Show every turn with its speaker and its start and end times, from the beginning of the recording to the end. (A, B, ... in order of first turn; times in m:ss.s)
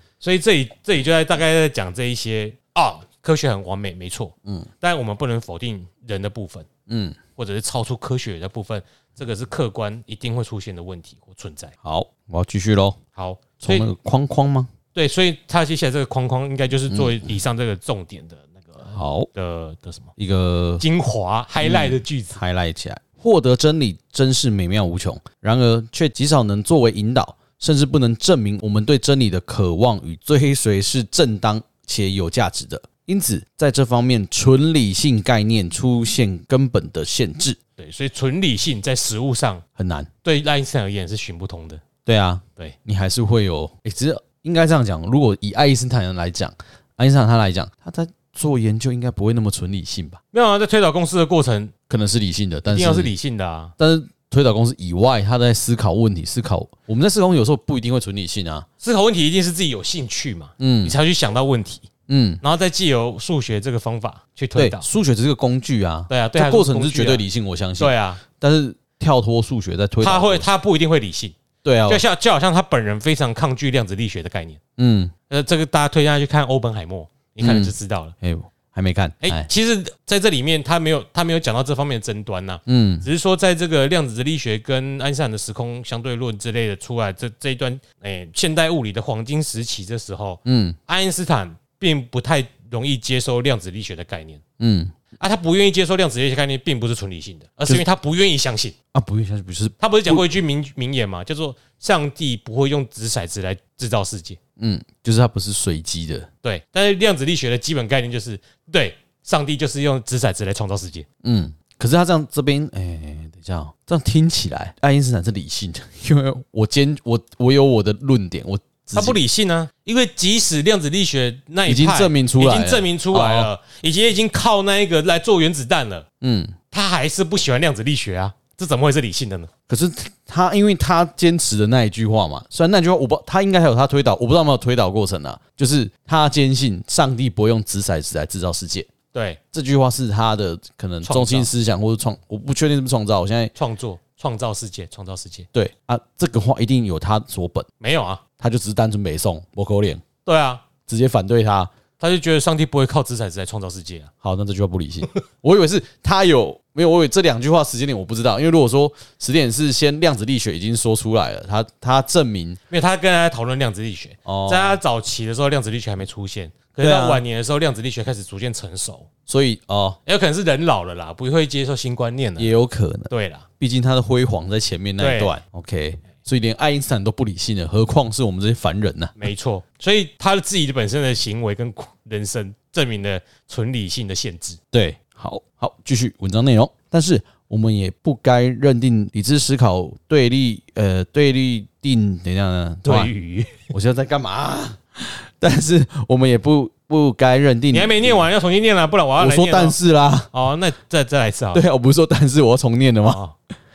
0:00.2-0:06.7 A
0:06.9-0:07.2 B
0:07.4-0:11.7 A
0:11.8-0:13.0 B
0:13.2-0:13.9 A
0:13.6-0:14.7 B
0:14.9-0:20.1 A
0:16.9-0:17.3 B
0:18.9-0:19.3 B
0:20.2-0:20.8 B
0:20.8-0:22.4 A
0:21.6-0:37.6 B
0:37.8-0:39.6 A
0:39.8-0:40.1 B
0:40.2-0:41.8 A
0:42.1-0:50.2 B
0:50.3-0:51.7 A
0:51.9-0:53.1 B
0:52.7-0:53.7 A
0:53.8-0:58.7 B
0:58.8-1:01.9 A
1:00.6-1:01.0 B
1:02.1-1:02.4 B
1:02.4-1:04.9 A
1:04.6-1:10.5 B
1:06.1-1:07.2 A
1:07.8-1:08.2 A
1:10.0-1:11.4 A
1:11.6-1:12.0 B
1:11.9-1:14.6 A
1:14.8-1:15.1 B
1:15.3-1:18.2 A
1:17.4-1:19.5 B
1:19.2-1:34.4 A
1:22.7-1:23.1 B
1:30.5-1:30.8 B
1:34.6-1:35.0 B
1:35.2-1:38.8 A
1:38.9-1:40.3 B
1:39.8-1:44.4 A
1:44.6-1:46.3 B
1:46.4-1:51.1 A
1:51.2-1:59.2 B
1:58.9-2:06.1 A
2:01.7-2:03.5 B
2:06.2-2:06.6 B
2:06.7-2:09.5 A
2:09.7-2:18.9 B
2:19.1-2:19.4 A
2:19.5-2:23.5 B
2:21.0-2:21.5 A
2:23.6-2:25.5 A
2:25.5-2:27.7 B
2:27.8-2:28.2 A
2:28.4-2:30.0 B
2:30.2-2:30.6 A
2:30.9-2:31.7 B
2:32.0-2:34.1 A
2:34.2-2:42.6 B
2:42.7-2:49.1 A
2:44.3-2:44.8 B
2:46.8-2:47.2 B
2:49.3-2:50.0 B
2:50.1-2:52.6 A
2:52.4-2:59.2 B
2:53.1-2:53.4 A
2:55.0-2:55.4 A
2:59.2-3:04.6 A
3:04.7-3:13.1 B
3:12.8-3:13.7 A
3:13.7-3:18.3 B
3:17.7-3:19.8 A
3:19.2-3:20.3 B
3:20.3-3:21.6 A
3:21.5-3:23.2 B
3:23.0-3:23.3 A